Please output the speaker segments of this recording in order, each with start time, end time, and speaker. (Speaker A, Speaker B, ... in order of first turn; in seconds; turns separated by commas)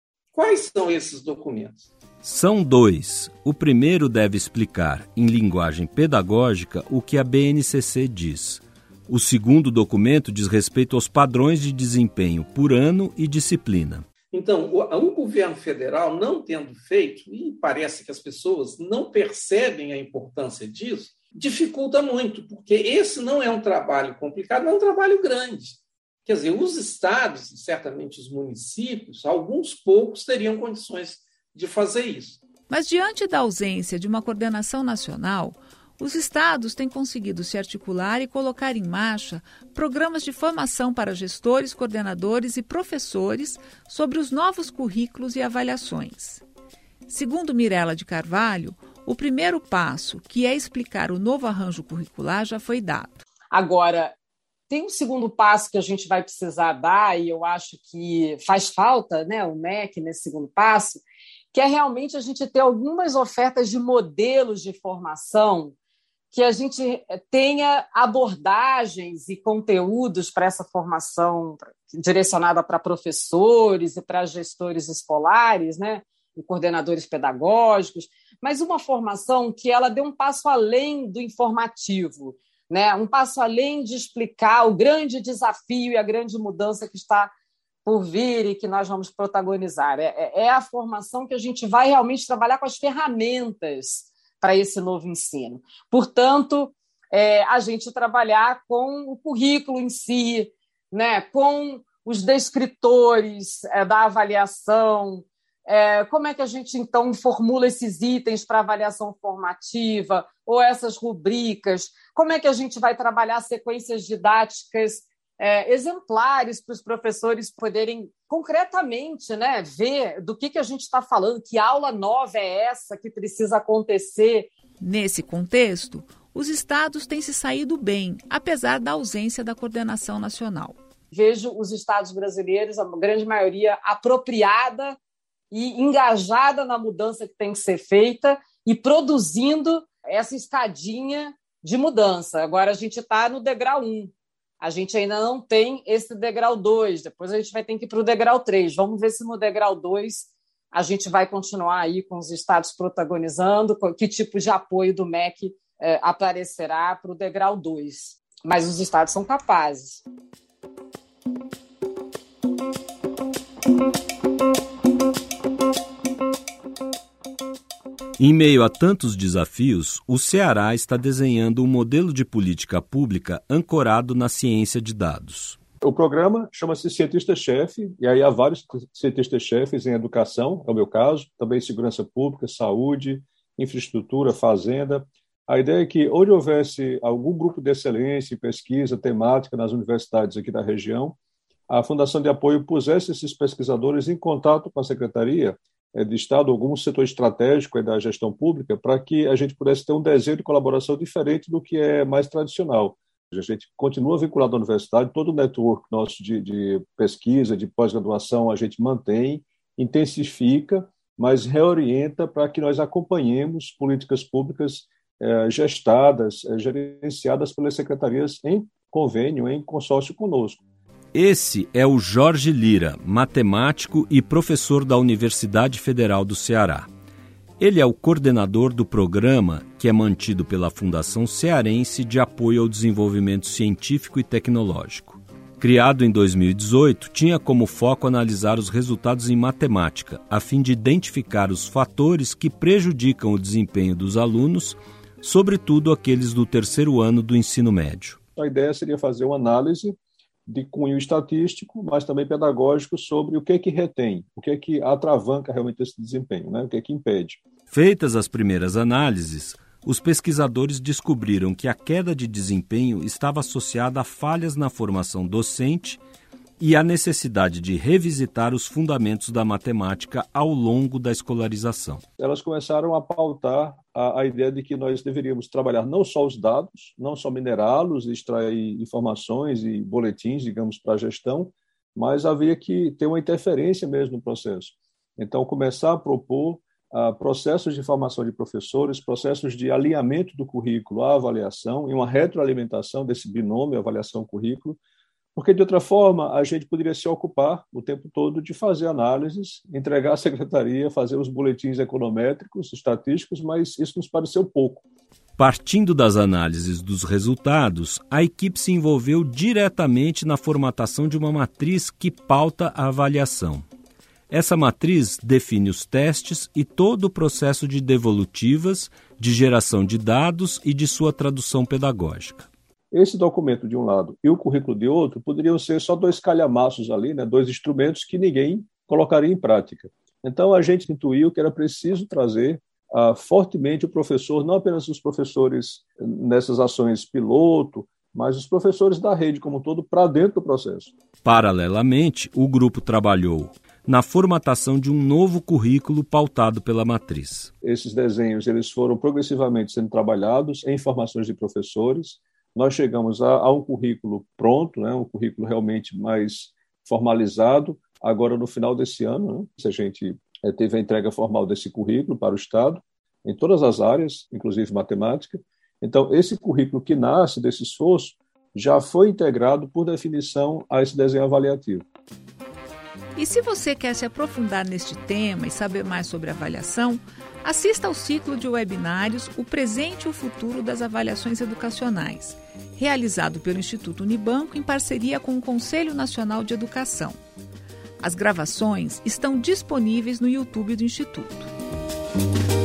Speaker A: 0.3-1.9, Speaker B: 2.2-14.1, Speaker A: 14.3-32.4, Speaker C: 32.7-46.4, Speaker C: 47.1-53.2, Speaker D: 53.5-54.1, Speaker D: 54.7-61.0, Speaker D: 61.5-65.7, Speaker D: 66.3-87.3, Speaker D: 87.8-124.5, Speaker C: 124.8-130.8, Speaker D: 131.1-135.0, Speaker D: 135.5-160.0, Speaker B: 168.2-175.6, Speaker E: 175.8-191.2, Speaker E: 191.7-220.6, Speaker B: 221.1-226.9, Speaker B: 227.6-248.2, Speaker E: 248.4-257.4, Speaker B: 257.7-266.0, Speaker B: 266.6-272.0, Speaker E: 272.2-294.8, Speaker E: 295.4-304.8, Speaker B: 305.4-313.6, Speaker B: 314.3-322.5, Speaker E: 322.9-340.9, Speaker B: 341.2-347.5, Speaker E: 347.6-371.9, Speaker C: 373.2-387.2, Speaker C: 388.0-391.5